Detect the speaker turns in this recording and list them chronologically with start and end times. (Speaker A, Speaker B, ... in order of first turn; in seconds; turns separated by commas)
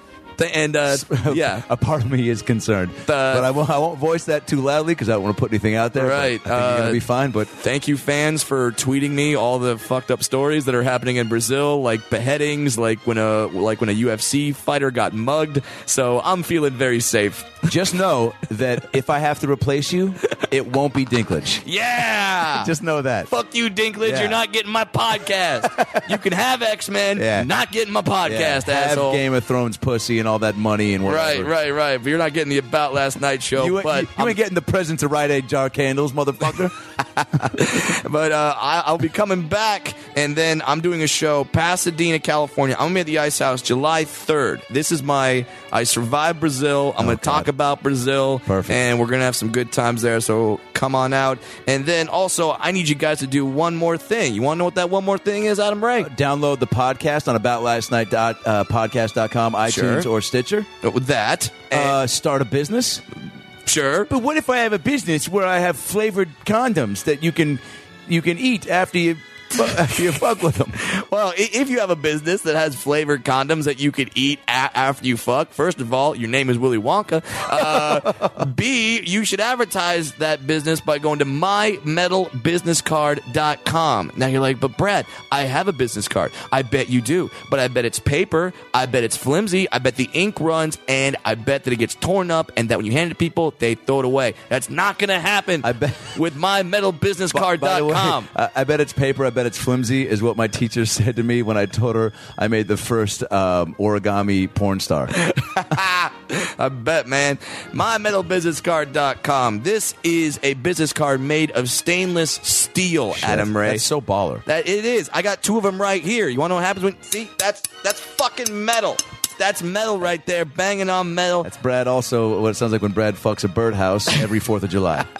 Speaker A: 0.4-1.6, Speaker B: 0.9-7.5, Speaker A: 3.1-3.5, Speaker A: 6.0-7.0, Speaker A: 7.6-17.7, Speaker B: 17.7-21.6, Speaker A: 21.6-22.7, Speaker B: 22.5-23.3, Speaker A: 23.3-29.2, Speaker B: 24.0-24.4, Speaker B: 25.7-26.2, Speaker B: 27.2-27.5, Speaker B: 28.2-31.5, Speaker A: 31.1-34.4, Speaker B: 33.5-37.5, Speaker A: 37.6-56.1, Speaker B: 47.0-47.5, Speaker B: 48.5-48.8, Speaker B: 56.0-60.7, Speaker A: 59.7-60.1, Speaker A: 60.8-62.0, Speaker B: 61.7-63.0, Speaker A: 63.7-64.1, Speaker B: 64.1-70.8, Speaker A: 70.8-98.3, Speaker B: 77.6-78.3, Speaker B: 95.6-96.1, Speaker B: 97.3-105.1, Speaker A: 105.2-113.8, Speaker B: 113.2-114.5, Speaker A: 114.5-121.5, Speaker B: 121.4-125.1